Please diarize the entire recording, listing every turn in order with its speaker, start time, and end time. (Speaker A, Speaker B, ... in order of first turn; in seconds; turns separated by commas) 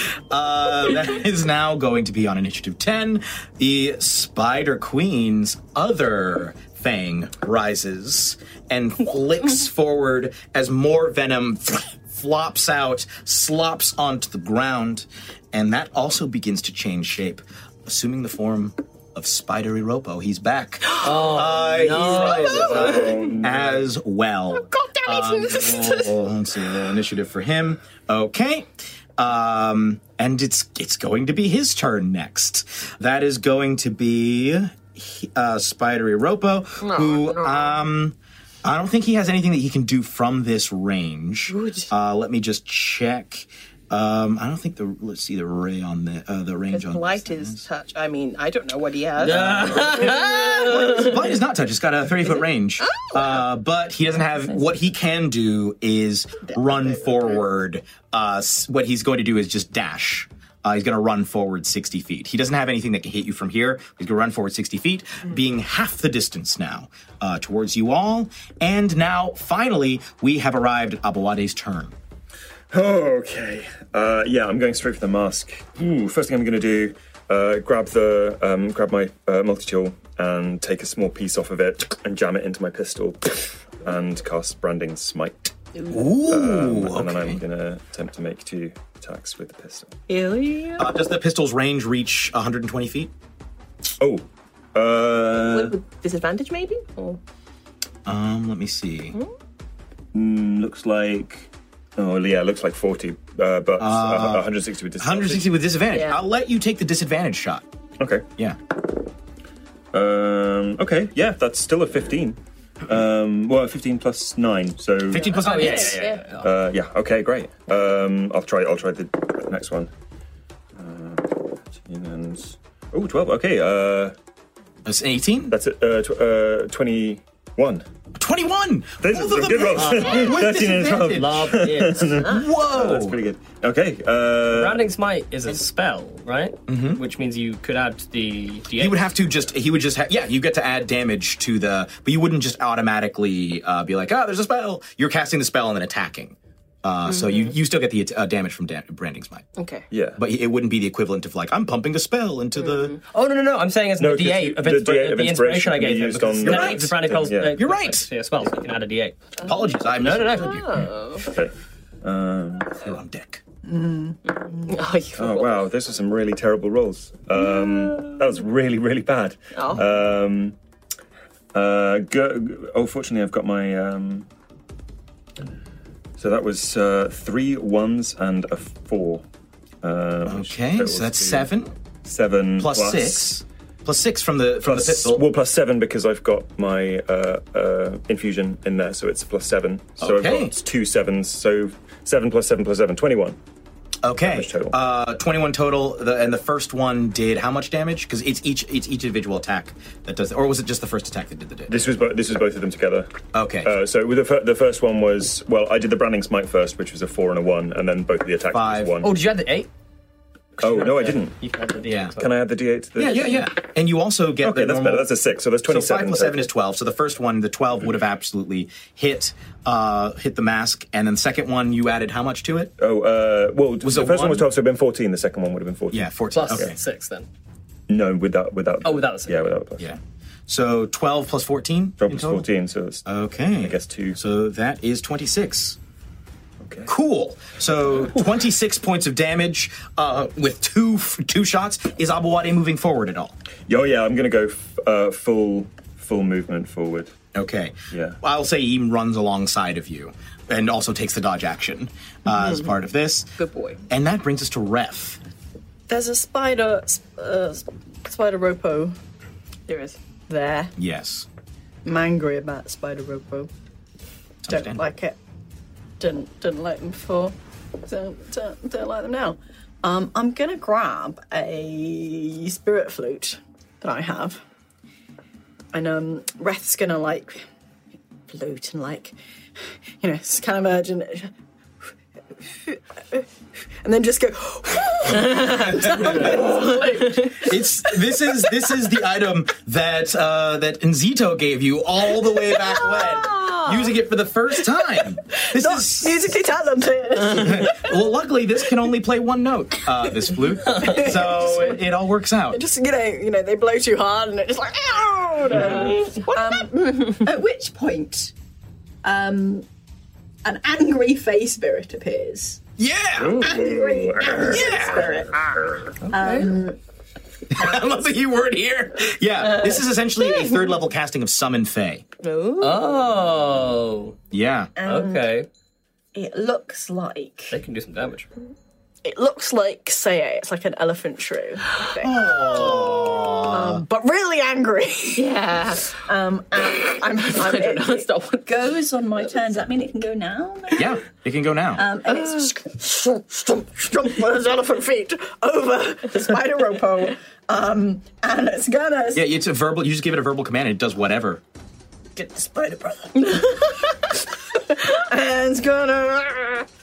Speaker A: 0.3-47.6, Speaker B: 20.9-21.3, Speaker C: 21.0-22.9, Speaker B: 21.9-23.4, Speaker D: 22.5-23.9, Speaker B: 24.5-26.1, Speaker B: 36.8-37.8, Speaker B: 41.5-41.9, Speaker B: 46.7-51.3, Speaker C: 49.2-51.2, Speaker A: 49.3-71.9, Speaker B: 52.3-53.5, Speaker B: 56.5-57.4, Speaker D: 72.7-85.5, Speaker B: 85.8-86.1, Speaker A: 85.9-87.4, Speaker D: 86.2-89.9, Speaker B: 90.1-90.9, Speaker A: 90.8-93.1, Speaker D: 94.0-95.8, Speaker B: 95.3-97.2, Speaker A: 98.0-99.2, Speaker D: 100.1-105.6, Speaker A: 103.8-107.6, Speaker B: 105.9-106.2, Speaker D: 108.0-108.2, Speaker D: 109.9-119.9, Speaker A: 115.1-116.0, Speaker B: 115.2-116.2, Speaker C: 115.3-116.5, Speaker D: 120.8-124.1, Speaker A: 124.8-125.5, Speaker D: 125.5-127.8, Speaker A: 128.2-131.7, Speaker D: 129.0-134.8, Speaker C: 129.7-130.5, Speaker C: 131.0-132.2, Speaker A: 132.2-133.2, Speaker C: 134.5-139.1, Speaker A: 136.7-137.0, Speaker A: 138.8-149.4, Speaker B: 147.1-147.6, Speaker B: 149.6-149.8, Speaker D: 149.9-150.2, Speaker A: 150.2-152.9, Speaker B: 152.6-153.0, Speaker C: 153.1-159.2, Speaker D: 154.0-157.6, Speaker A: 156.4-157.0, Speaker A: 157.5-158.1, Speaker B: 159.4-159.7, Speaker A: 159.4-160.7, Speaker C: 160.0-160.6, Speaker B: 160.2-161.3, Speaker D: 161.2-162.7, Speaker A: 162.7-163.4, Speaker E: 163.7-164.7, Speaker B: 164.3-165.7, Speaker D: 165.2-170.6, Speaker B: 167.3-168.3, Speaker B: 169.5-169.9, Speaker D: 171.5-174.2, Speaker D: 176.2-179.2, Speaker D: 179.8-181.5, Speaker A: 180.2-181.7, Speaker D: 182.0-183.3, Speaker A: 182.6-185.2, Speaker D: 184.6-193.4, Speaker A: 190.0-190.6, Speaker A: 194.0-201.8, Speaker D: 194.2-194.8, Speaker D: 201.7-203.1, Speaker A: 203.3-203.7, Speaker D: 203.6-209.1, Speaker A: 208.5-209.0, Speaker C: 209.0-209.7, Speaker C: 210.6-212.3, Speaker D: 210.6-211.3, Speaker A: 211.8-212.1, Speaker D: 212.2-213.5, Speaker A: 212.9-215.1, Speaker D: 214.4-216.5, Speaker A: 215.7-222.7, Speaker D: 222.8-226.7, Speaker A: 223.8-224.5, Speaker A: 225.9-226.8, Speaker C: 226.3-227.3, Speaker D: 227.9-229.9, Speaker C: 228.8-229.4, Speaker A: 229.8-232.5, Speaker D: 232.0-233.0, Speaker A: 233.0-235.8, Speaker D: 233.6-234.2, Speaker D: 236.6-236.9, Speaker A: 236.8-243.3, Speaker D: 243.7-247.1, Speaker A: 247.3-253.3, Speaker D: 247.9-248.2, Speaker B: 253.4-253.8, Speaker A: 253.9-255.2, Speaker E: 255.9-258.9, Speaker B: 259.7-260.0, Speaker E: 260.3-260.7, Speaker A: 260.8-261.3, Speaker E: 261.8-263.5, Speaker A: 264.4-264.8, Speaker E: 264.5-265.2, Speaker E: 266.0-267.3, Speaker E: 267.9-274.4, Speaker E: 275.7-277.4, Speaker E: 278.3-279.1, Speaker E: 280.0-281.3, Speaker E: 282.6-283.2, Speaker E: 283.8-287.5, Speaker B: 285.2-287.4, Speaker A: 285.5-286.4, Speaker A: 287.3-296.3, Speaker B: 292.6-293.9, Speaker E: 295.4-297.9, Speaker A: 297.3-302.6, Speaker E: 300.6-301.8, Speaker E: 302.5-308.3, Speaker B: 305.8-307.2, Speaker E: 309.0-309.6, Speaker E: 310.4-312.6, Speaker A: 312.8-313.5, Speaker D: 313.2-314.6, Speaker E: 313.4-315.4, Speaker A: 314.4-315.1, Speaker E: 316.1-316.8, Speaker C: 316.1-316.4, Speaker A: 317.5-322.0, Speaker B: 322.2-323.0, Speaker C: 322.6-324.1, Speaker A: 324.3-324.7, Speaker E: 324.8-325.3, Speaker C: 324.8-325.5, Speaker E: 326.1-327.6, Speaker C: 327.5-328.3, Speaker E: 329.0-335.3, Speaker A: 332.0-333.8, Speaker B: 335.1-336.0, Speaker E: 335.9-341.0, Speaker B: 337.2-338.5, Speaker A: 340.7-341.9, Speaker E: 341.7-349.3, Speaker B: 342.1-342.5, Speaker A: 349.1-351.4, Speaker E: 352.1-353.7, Speaker E: 354.6-356.6